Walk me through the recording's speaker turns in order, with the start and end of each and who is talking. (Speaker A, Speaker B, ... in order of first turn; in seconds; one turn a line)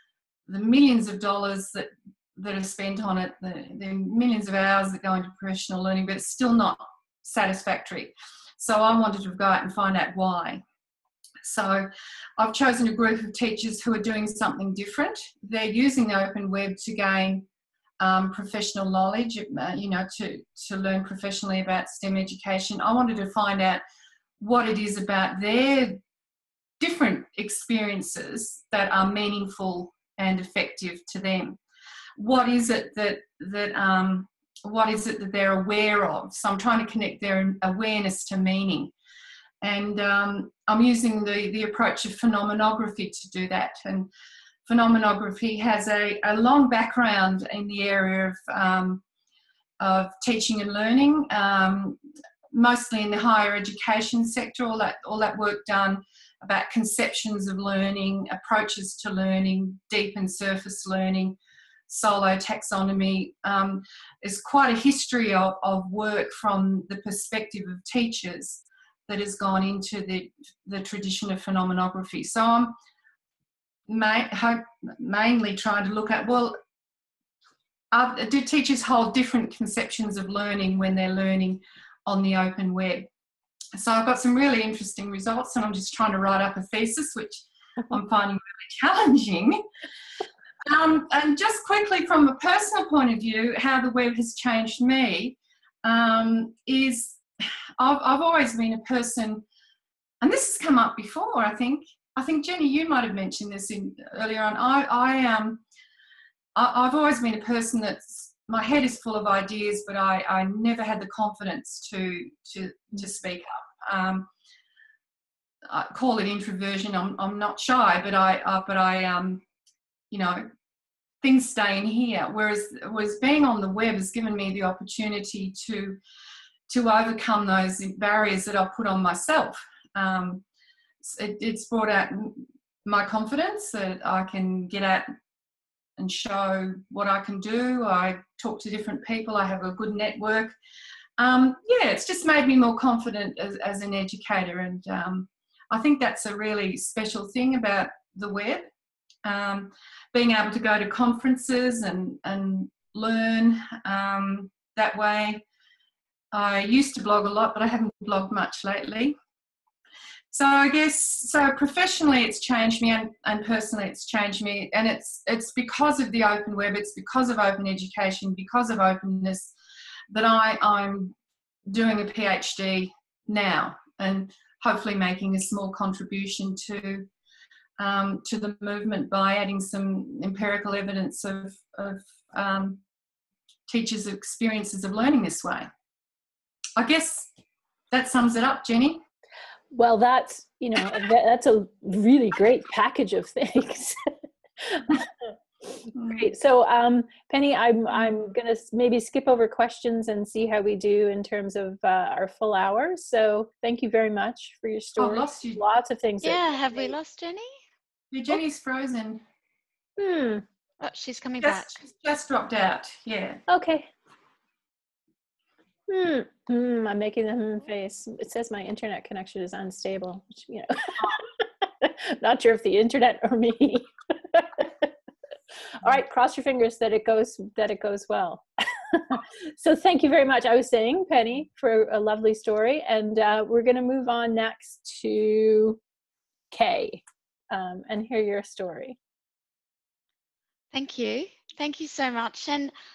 Speaker A: 0.5-10.6
Speaker A: 11.4-17.5
Speaker A: 18.0-23.8
Speaker A: 24.4-26.0
Speaker A: 26.8-31.6
Speaker A: 32.2-38.9
Speaker A: 39.6-44.1
Speaker A: 44.7-49.0
Speaker A: 49.8-52.0
Speaker A: 52.5-72.8
Speaker A: 73.9-76.6
Speaker A: 77.9-83.1
Speaker A: 83.8-89.6
Speaker A: 90.7-97.2
Speaker A: 97.8-99.5
Speaker A: 100.2-105.6
Speaker A: 106.5-114.3
Speaker A: 115.7-119.4
Speaker A: 120.1-120.5
Speaker A: 121.2-126.0
Speaker A: 126.7-130.4
Speaker A: 131.0-135.1
Speaker A: 136.0-140.6
Speaker A: 141.2-148.7
Speaker A: 149.2-155.4
Speaker A: 156.3-159.2
Speaker A: 160.3-169.5
Speaker A: 170.1-171.2
Speaker A: 171.7-177.1
Speaker A: 177.8-182.8
Speaker A: 183.7-185.7
Speaker A: 186.8-187.3
Speaker A: 187.9-189.0
Speaker B: 189.7-206.9
Speaker A: 196.0-196.3
Speaker A: 205.0-205.6
Speaker C: 206.2-207.5
Speaker A: 208.1-209.2
Speaker B: 210.0-210.4
Speaker C: 210.8-211.8
Speaker A: 211.4-213.4
Speaker B: 213.5-213.9
Speaker B: 215.9-224.9
Speaker B: 225.8-235.8
Speaker B: 236.5-239.0
Speaker C: 240.7-242.7